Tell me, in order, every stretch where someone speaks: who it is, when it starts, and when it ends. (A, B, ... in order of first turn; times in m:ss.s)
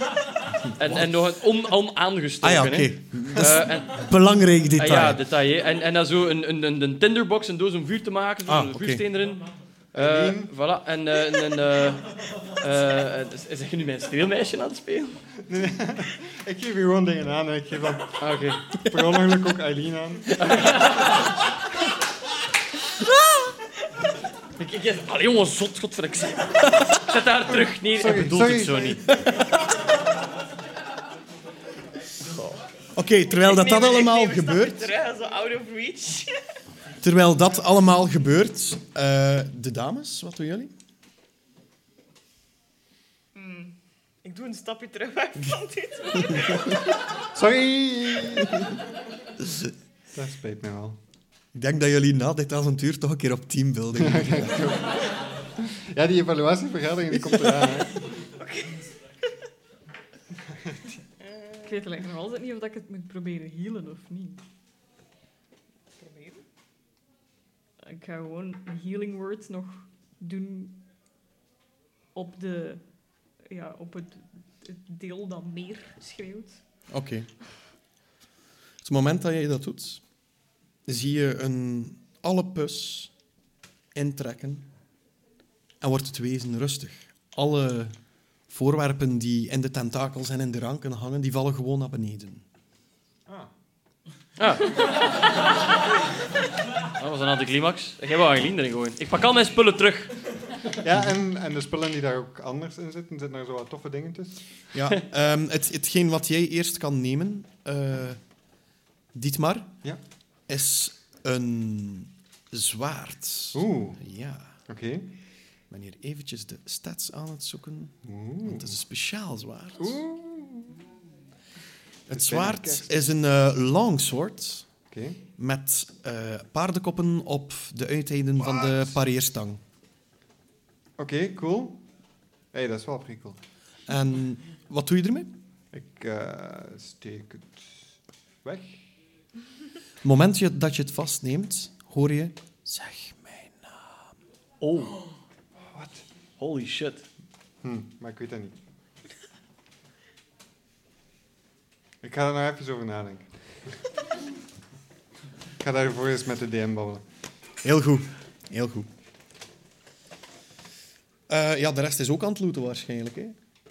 0:00.7-0:01.2 A
0:00.8-0:04.1 B
0:02.4-0:05.2 A
0:04.8-0:15.2 B
0:08.5-0:09.0 A
0:10.0-0:10.5 C
0:15.5-0:18.2 C
0:18.2-0:18.7 B
0:18.8-0:20.4 C
0:18.9-0:19.2 A
0:20.4-0:21.3 B
0:24.6-0:29.6 B
0:27.5-0:29.0 C
0:32.9-0:34.9 A
0:33.3-0:36.4 D
0:37.0-0:40.7 A
0:43.4-0:46.9 D
0:47.3-0:48.7 C
0:49.4-0:49.7 A
0:50.1-0:51.0 C
0:51.5-0:54.7 A
0:54.0-0:55.0 C
0:55.6-0:57.9 C
0:57.1-0:57.8 A
0:58.4-0:59.3 D
1:01.2-1:01.9 D
1:01.7-1:04.4 E
1:06.0-1:06.4 D
1:07.8-1:10.8 E
1:12.1-1:12.8 E
1:13.4-1:16.6 E
1:16.9-1:17.3 A
1:18.8-1:20.0 A
1:20.9-1:23.1 A
1:24.0-1:24.7 A
1:25.8-1:28.0 A
1:28.5-1:32.4 A
1:34.4-1:35.2 B
1:37.0-1:40.1 B
1:40.8-1:44.4 C
1:44.7-1:48.2 A
1:49.1-1:49.8 A
1:50.5-1:54.6 A
1:53.5-1:54.0 C
1:54.7-1:55.1 C
1:55.7-2:00.0 A
1:58.1-1:58.7 C
1:59.8-2:00.8 C
2:02.1-2:04.7 A
2:02.1-2:02.9 C
2:04.9-2:05.2 C
2:05.4-2:09.6 A
2:11.0-2:11.8 C
2:12.5-2:13.4 C
2:13.9-2:15.3 A
2:15.7-2:17.9 C
2:18.4-2:18.9 C
2:20.0-2:24.0 A
2:24.6-2:25.0 B
2:25.6-2:26.0 C
2:26.4-2:27.1 B
2:27.6-2:28.6 C
2:32.0-2:33.3 C
2:35.6-2:37.0 C
2:37.6-2:38.9 A
2:41.3-2:43.4 A